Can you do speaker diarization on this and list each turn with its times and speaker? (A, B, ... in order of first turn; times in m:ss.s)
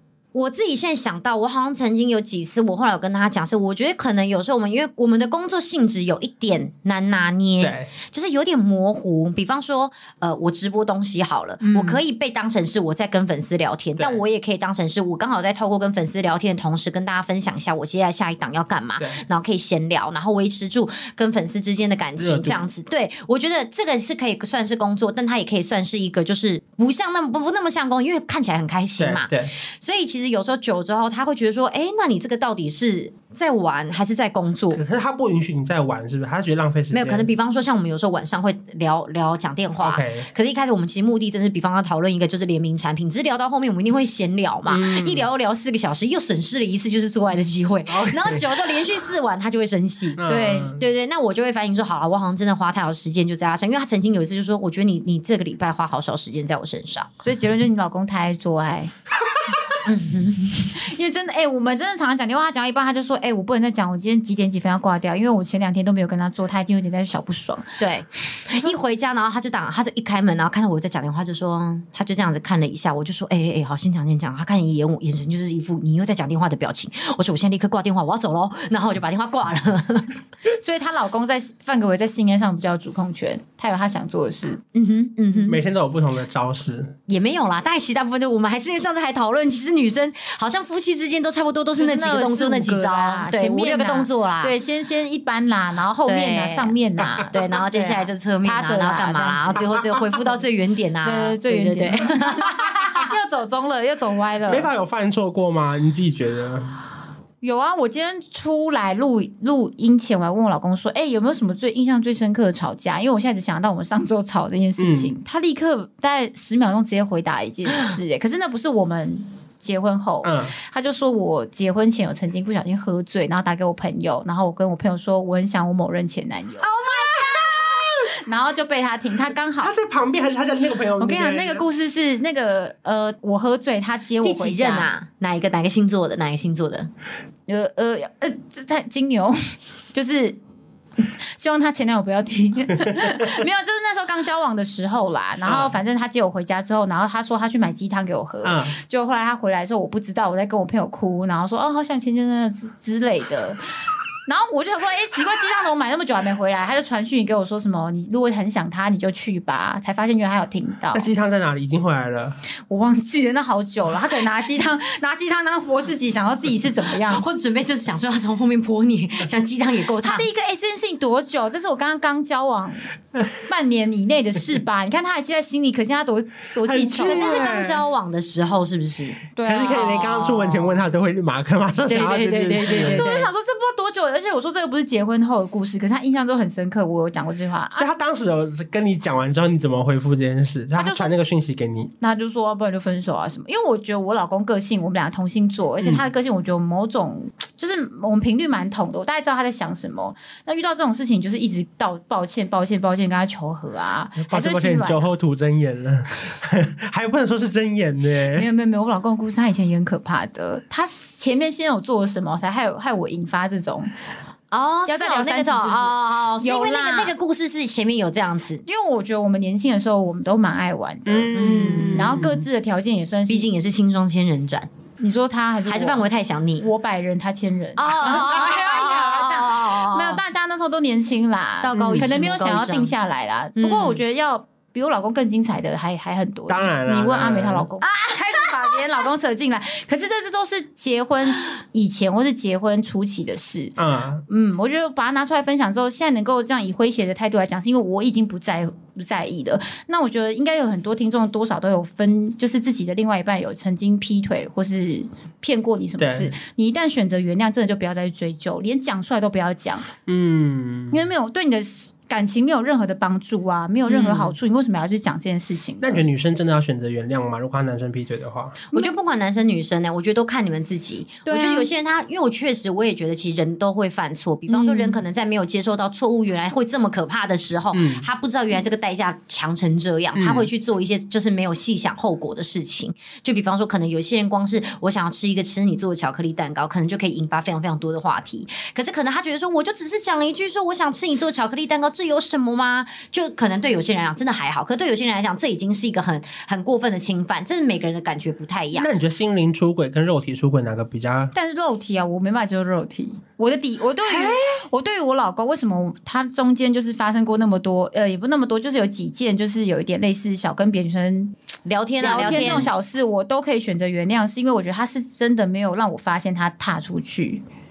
0:00.3-0:34.8 A
0:07.6-0:07.9 B
0:11.6-0:12.0 C
0:22.2-0:22.6 B
0:29.0-0:29.5 B
0:34.7-0:37.3 B
0:36.9-0:50.2 A
0:39.8-0:40.3 B
0:44.7-0:45.3 B
0:47.9-0:48.6 B
0:50.2-0:50.8 B
0:50.2-0:50.8 C
0:50.8-0:57.1 A
0:57.2-0:58.9 C
0:59.8-1:00.8 A
1:00.8-1:07.8 C
1:07.8-1:20.1 A
1:08.5-1:08.7 C
1:20.5-1:24.6 C
1:24.7-1:25.6 A
1:25.4-1:26.9 B
1:27.1-1:34.5 A
1:31.8-1:39.7 C
1:36.0-1:36.7 A
1:37.3-1:42.6 A
1:41.0-1:44.7 C
1:44.4-1:46.7 B
1:47.4-2:06.7 C
1:54.8-1:55.1 B
2:00.2-2:00.5 B
2:06.6-2:07.7 A
2:06.9-2:08.0 B
2:08.2-2:09.7 C
2:09.6-2:11.6 B
2:11.0-2:14.9 C
2:14.2-2:16.9 A
2:17.5-2:20.4 C
2:21.3-2:33.6 C
2:25.4-2:25.7 B
2:28.4-2:28.7 B
2:34.3-2:41.1 C
2:40.9-2:42.4 B
2:42.7-2:47.2 C
2:47.0-2:50.2 A
2:50.0-2:57.5 C
2:56.6-2:57.8 B
2:57.0-2:59.2 A
2:59.4-3:00.2 C
2:59.4-3:03.1 B
3:00.0-3:00.7 A
3:01.9-3:03.3 A
3:02.7-3:07.9 C
3:07.8-3:11.9 B
3:10.7-3:11.1 C
3:12.0-3:25.1 C
3:24.2-3:28.5 B
3:28.3-3:33.9 C
3:34.5-3:38.6 A
3:34.9-3:37.1 C
3:38.6-3:43.5 C
3:41.0-3:42.4 B
3:41.3-3:42.3 A
3:43.3-3:44.7 A
3:45.0-3:46.0 C
3:45.7-3:46.6 A
3:46.6-4:03.7 C
3:47.8-3:50.2 A
3:51.6-3:52.9 A
3:51.7-3:52.1 B
3:53.6-3:54.0 A
3:56.5-3:57.7 B
4:03.8-4:04.2 B
4:04.3-4:19.9 C
4:16.0-4:16.3 B
4:20.0-4:21.0 B
4:20.9-4:26.0 C
4:23.9-4:24.3 A
4:25.8-4:28.6 B
4:28.7-4:58.9 A
4:31.3-4:31.7 C
4:34.5-4:35.0 C
4:37.7-4:38.1 B
4:40.1-4:40.5 B
4:58.7-5:01.3 B
5:01.3-5:11.3 C
5:04.0-5:04.6 B
5:11.6-5:12.7 A
5:12.0-5:17.4 C
5:12.0-5:12.7 B